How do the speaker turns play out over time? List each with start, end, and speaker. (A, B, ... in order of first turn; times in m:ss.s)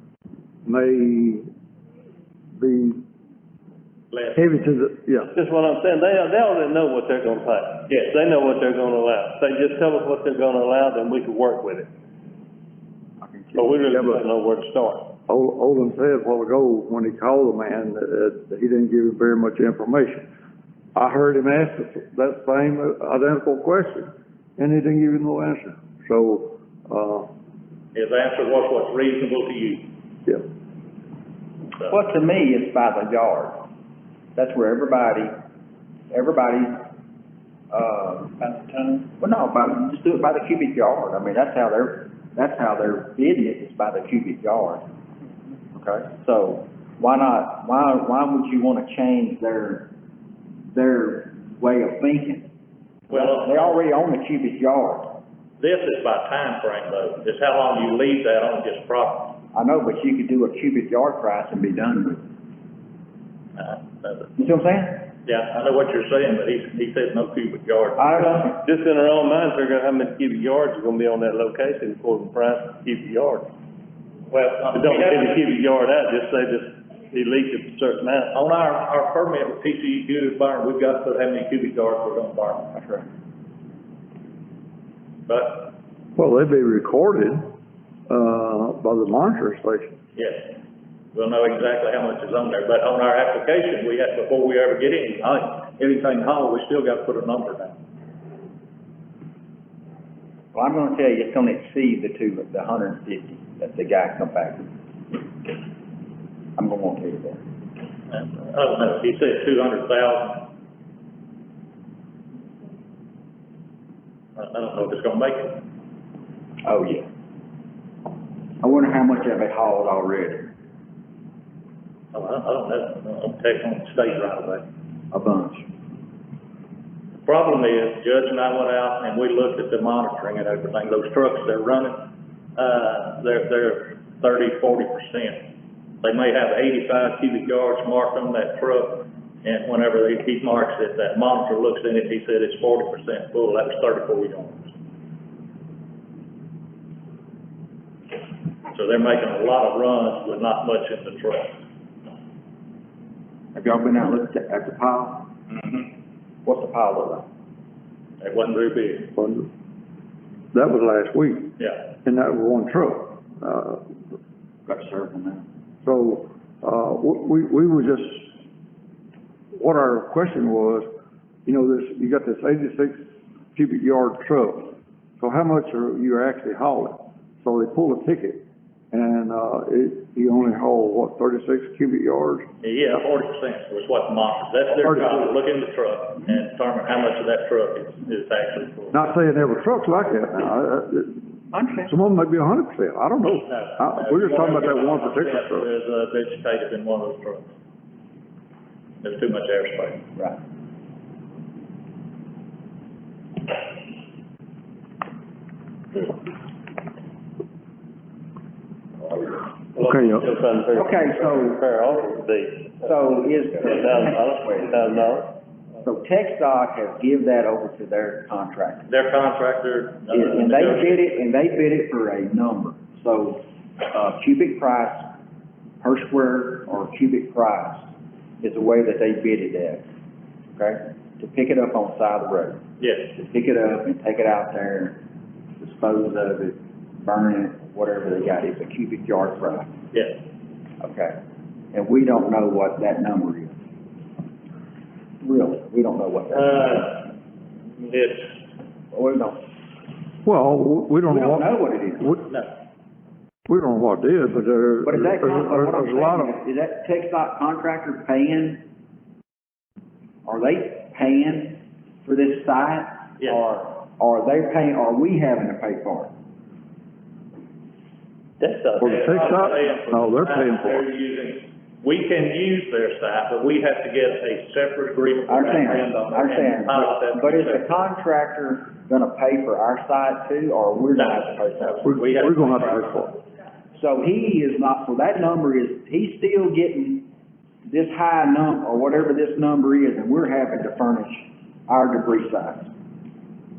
0:00.6-0:01.5 A
0:02.6-0:03.0 A
0:04.1-0:04.6 B
0:04.4-0:05.3 A
0:05.3-0:11.9 C
0:13.2-0:13.9 D
0:13.6-0:15.1 C
0:13.9-0:14.2 A
0:15.3-0:20.3 A
0:20.9-0:27.3 A
0:27.9-0:29.9 B
0:31.8-0:33.7 D
0:34.3-0:35.3 D
0:36.1-0:36.9 D
0:37.7-0:44.8 D
0:45.7-0:49.9 D
0:50.7-0:52.5 D
0:53.1-0:55.2 D
0:53.1-0:53.7 B
0:55.6-0:59.4 B
0:59.5-1:02.2 D
1:03.6-1:04.3 B
1:04.4-1:05.1 D
1:05.2-1:08.5 B
1:08.0-1:08.6 D
1:08.6-1:13.5 C
1:14.3-1:15.4 B
1:14.7-1:18.3 C
1:18.3-1:22.7 B
1:22.7-1:23.1 D
1:25.3-1:25.7 B
1:26.2-1:27.5 A
1:28.1-1:30.0 A
1:30.2-1:30.6 B
1:31.1-1:37.7 B
1:40.5-1:44.7 D
1:46.6-1:47.4 D
1:48.1-1:50.5 B
1:54.4-1:55.6 B
1:56.6-1:57.1 D
1:58.6-2:00.5 D
2:02.1-2:04.6 B
2:05.1-2:05.7 D
2:07.2-2:15.4 B
2:16.0-2:24.7 B
2:28.7-2:31.6 B
2:33.5-2:35.3 D
2:35.5-2:35.9 B
2:36.4-2:37.3 D
2:38.2-2:39.1 B
2:39.1-2:39.5 A
2:40.5-2:43.9 A
2:41.6-2:41.8 B
2:44.6-2:45.4 D
2:45.8-2:48.4 A
2:49.6-2:50.9 A
2:51.4-2:53.0 A
2:53.5-3:02.5 A
3:02.6-3:09.0 B
3:04.7-3:05.3 A
3:08.9-3:15.7 A
3:11.5-3:11.9 D
3:13.5-3:17.5 B
3:19.0-3:20.0 B
3:29.8-3:33.0 C
3:29.8-3:30.3 A
3:30.7-3:31.6 D
3:32.8-3:35.0 D
3:33.6-3:35.3 C
3:35.8-3:38.9 D
3:38.9-3:41.1 B
3:40.1-3:45.1 D
3:45.8-3:49.8 D
3:50.6-3:52.6 D
3:52.8-3:53.1 B
3:53.1-3:55.0 D
3:55.6-3:59.7 D
3:59.9-4:00.2 B
4:00.8-4:01.2 D
4:01.7-4:03.6 D
4:05.2-4:07.1 D
4:06.3-4:07.0 B
4:07.8-4:08.3 B
4:08.9-4:09.4 D
4:10.2-4:12.3 A
4:11.0-4:12.2 D
4:13.5-4:16.3 A
4:14.8-4:18.6 D
4:20.2-4:26.1 D
4:28.4-4:29.2 C
4:28.8-4:30.8 A
4:28.8-4:37.7 B
4:35.3-4:42.1 D
4:41.0-4:43.0 B
4:41.8-4:43.1 A
4:43.7-4:47.1 D
4:47.7-4:52.7 D